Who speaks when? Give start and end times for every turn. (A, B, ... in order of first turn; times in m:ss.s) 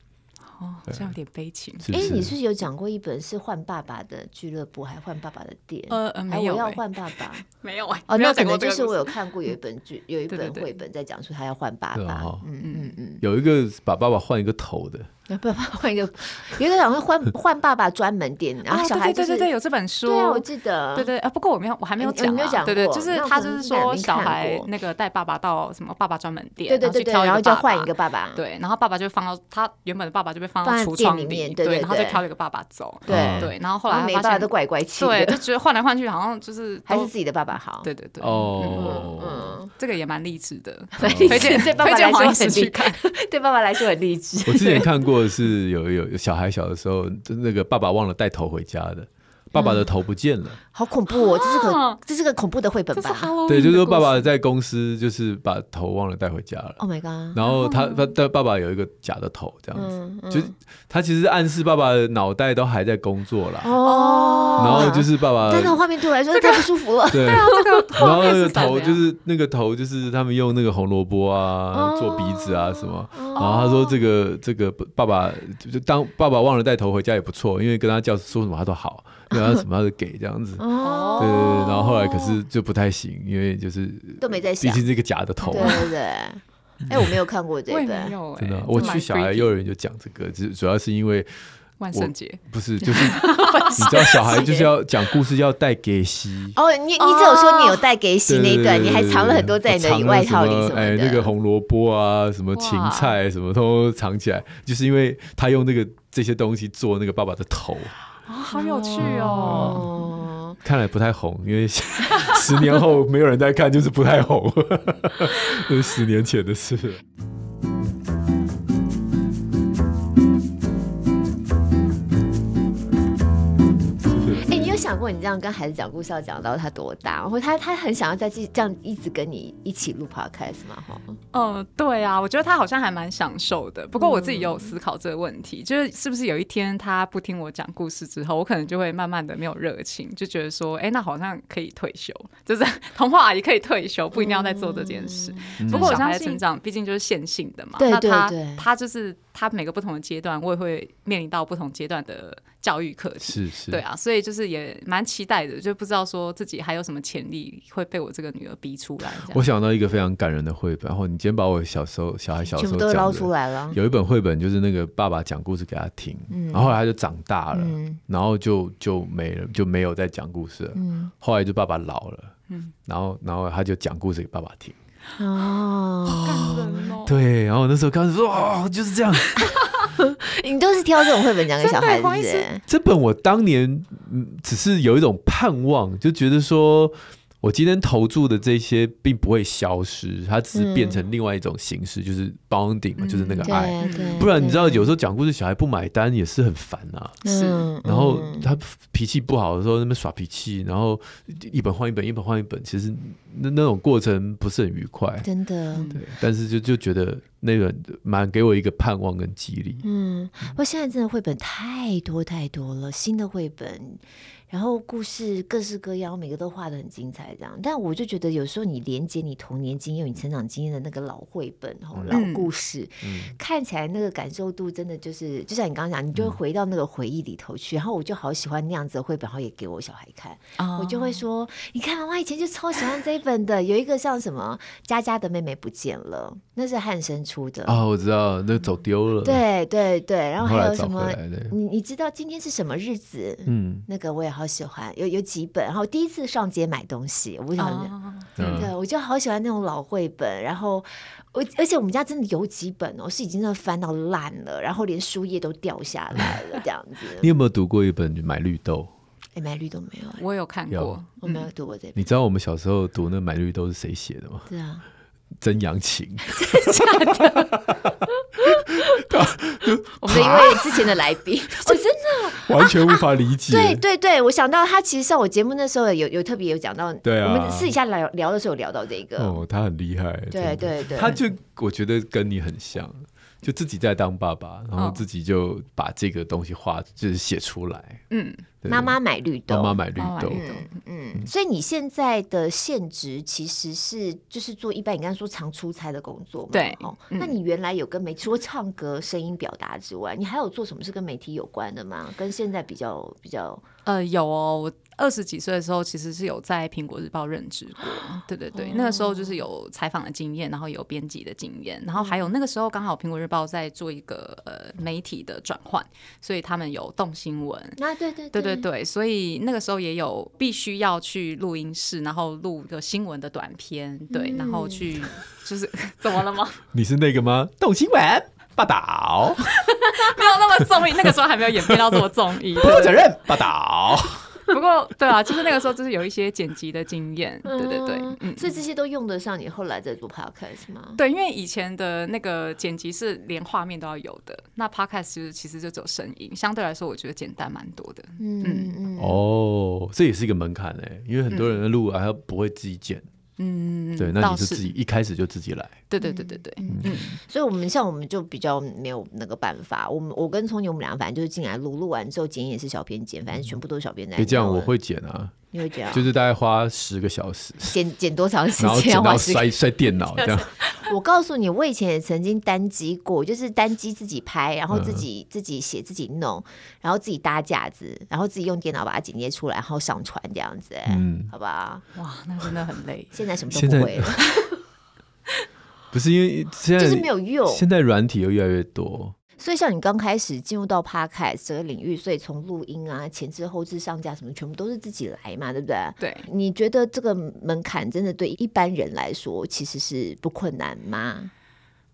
0:00.5-0:01.9 A
0:01.8-0:02.4 B
0:01.9-0:07.4 C
0:05.9-0:09.1 A
0:08.1-0:13.2 C
0:10.3-0:10.7 A
0:11.9-0:12.4 B
0:12.6-0:12.9 A
0:13.2-0:15.1 B
0:15.3-0:19.5 C
0:18.7-0:37.1 A
0:20.0-0:21.1 C
0:22.0-0:24.7 C
0:26.7-0:28.4 C
0:30.6-0:32.2 C
0:33.1-0:35.4 C
0:33.1-0:33.5 B
0:36.9-0:37.9 C
0:37.8-0:39.1 A
0:38.2-0:39.6 B
0:38.7-0:39.7 C
0:39.8-0:43.0 A
0:41.0-0:41.7 B
0:41.0-0:44.9 C
0:44.4-0:50.6 B
0:49.5-0:49.9 C
0:50.7-0:53.3 C
0:51.1-0:52.0 A
0:52.9-0:54.3 A
0:53.5-0:56.8 B
0:56.8-0:57.4 C
0:57.3-1:03.7 B
0:57.4-0:58.1 A
0:59.7-1:00.5 C
1:03.6-1:08.2 C
1:03.8-1:05.0 A
1:04.6-1:05.8 B
1:06.3-1:09.0 A
1:07.1-1:20.6 B
1:11.7-1:13.9 C
1:13.3-1:13.7 A
1:19.3-1:19.6 C
1:20.6-1:22.4 C
1:20.8-1:21.6 A
1:21.2-1:25.9 B
1:24.2-1:24.8 C
1:25.4-1:25.9 A
1:25.5-1:28.1 C
1:26.9-1:27.2 B
1:27.7-1:29.5 A
1:28.4-1:31.3 B
1:31.8-1:34.4 A
1:31.9-1:36.6 B
1:33.0-1:34.7 C
1:36.6-1:41.3 C
1:37.0-1:37.8 A
1:38.3-1:47.9 B
1:42.5-1:43.2 A
1:48.3-1:50.1 A
1:48.5-1:50.6 C
1:49.0-1:49.9 B
1:50.6-1:57.0 B
2:04.0-2:04.5 B
2:04.4-2:11.2 C
2:11.3-2:39.4 A
2:14.0-2:14.7 C
2:24.1-2:26.4 C
2:25.6-2:26.1 B
2:27.8-2:28.6 C
2:33.2-2:33.8 B
2:39.3-2:52.3 B
2:42.5-2:43.8 C
2:46.3-2:46.8 C
2:47.5-2:48.0 C
2:50.8-2:51.1 C
2:52.5-2:52.7 A
2:52.8-2:54.8 B
2:55.2-2:56.9 C
2:56.1-2:59.5 B
2:56.1-2:57.2 A
2:59.4-3:02.6 C
3:01.6-3:02.5 A
3:02.7-3:17.2 B
3:10.5-3:11.0 C
3:13.0-3:14.3 A
3:13.4-3:14.9 C
3:17.2-3:18.5 C
3:17.2-3:17.7 A
3:17.8-3:25.2 B
3:25.2-3:25.9 C
3:25.7-3:26.0 A
3:25.9-3:29.8 B
3:29.8-3:57.8 C
3:41.9-3:42.2 B
3:42.1-3:42.5 A
3:43.0-3:43.3 B
3:50.6-3:51.2 A
3:57.6-3:59.4 B
3:59.2-4:17.3 C
4:00.4-4:01.5 B
4:03.4-4:03.8 B
4:07.6-4:08.6 A
4:08.4-4:08.7 B
4:17.2-4:18.9 B
4:19.4-4:20.2 C
4:20.2-4:21.5 A
4:20.7-4:21.0 B
4:21.2-4:22.0 C
4:21.9-4:24.5 B
4:24.5-4:24.8 C
4:25.4-4:30.9 B
4:26.3-4:29.1 C
4:30.0-4:39.4 C
4:32.4-4:33.8 B
4:37.0-4:37.7 B
4:39.2-4:48.0 B
4:40.3-4:41.2 C
4:44.8-4:45.0 A
4:48.1-4:48.4 A
4:48.6-4:49.0 B
4:48.7-5:03.6 C
4:49.5-4:50.4 B
4:50.0-4:50.7 A
4:56.5-4:57.4 A
5:03.8-5:17.8 A
5:08.5-5:09.4 C
5:11.9-5:12.3 C
5:17.8-5:18.7 C
5:18.3-5:26.6 A
5:24.1-5:24.9 C
5:26.7-5:29.7 B
5:29.6-5:33.1 A
5:30.8-5:32.0 B
5:32.5-5:34.3 B
5:34.5-5:38.6 A
5:37.4-5:41.0 C
5:41.0-5:48.8 A
5:48.2-5:49.2 C
5:49.0-5:53.0 B
5:53.4-5:54.7 A
5:54.0-5:55.8 B
5:55.9-5:57.1 A
5:56.0-6:04.7 C
5:56.7-5:57.0 B
6:04.2-6:05.4 B
6:05.5-6:06.1 C
6:05.9-6:07.8 B
6:07.7-6:09.5 C
6:08.6-6:10.5 B
6:10.6-6:21.8 C
6:14.7-6:15.0 B
6:20.9-6:21.3 B
6:21.9-6:23.2 A
6:23.1-6:24.6 C
6:23.5-6:24.2 B
6:25.9-6:29.1 B
6:26.8-6:27.6 C
6:29.4-6:41.3 C
6:36.0-6:36.2 A